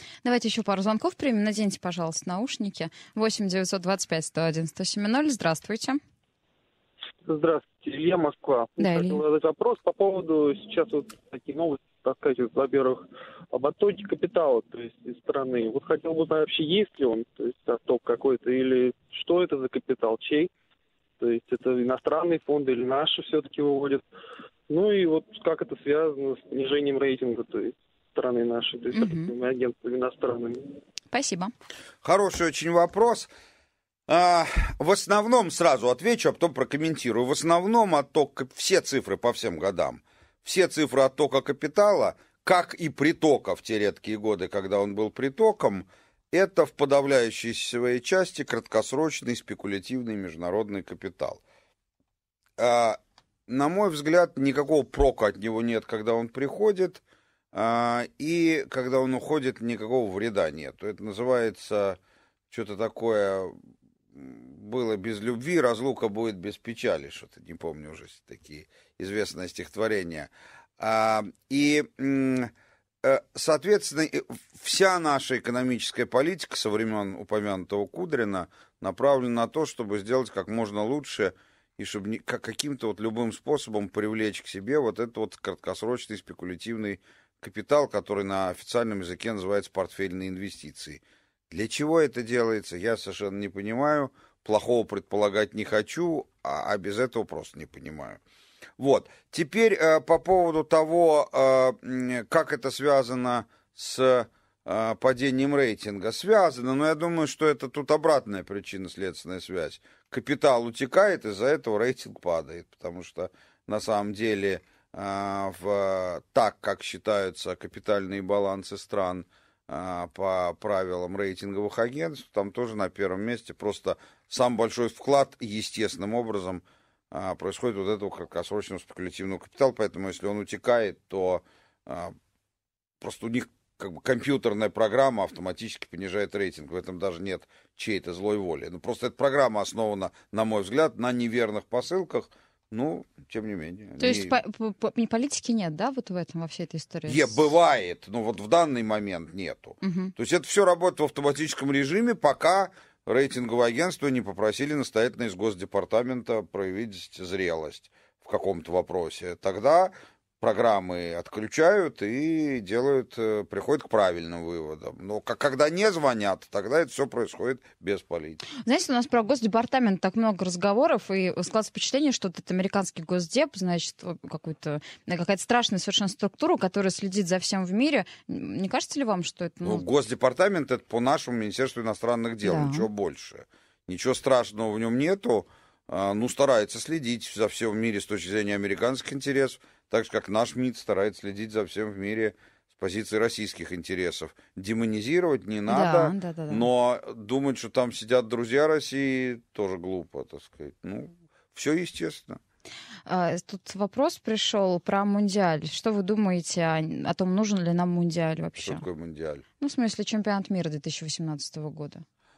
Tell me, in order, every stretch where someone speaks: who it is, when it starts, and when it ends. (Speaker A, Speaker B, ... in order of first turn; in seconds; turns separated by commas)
Speaker A: 0.2-6.0, Speaker B: 7.2-20.5, Speaker A: 8.8-9.2, Speaker B: 21.2-24.0, Speaker B: 24.7-30.7, Speaker A: 28.9-29.3, Speaker A: 31.1-31.5, Speaker C: 32.0-33.3, Speaker C: 34.1-51.4, Speaker C: 52.6-57.0, Speaker C: 57.5-62.0, Speaker C: 62.5-63.5, Speaker C: 64.1-72.5, Speaker C: 73.0-98.2, Speaker C: 98.8-132.1, Speaker C: 133.0-144.3, Speaker A: 144.0-147.4, Speaker C: 147.1-168.4, Speaker A: 149.8-150.1, Speaker A: 168.6-179.8, Speaker C: 179.6-202.4, Speaker A: 182.4-182.9, Speaker A: 195.7-196.7, Speaker A: 203.1-208.8, Speaker C: 208.6-209.4, Speaker A: 209.6-212.0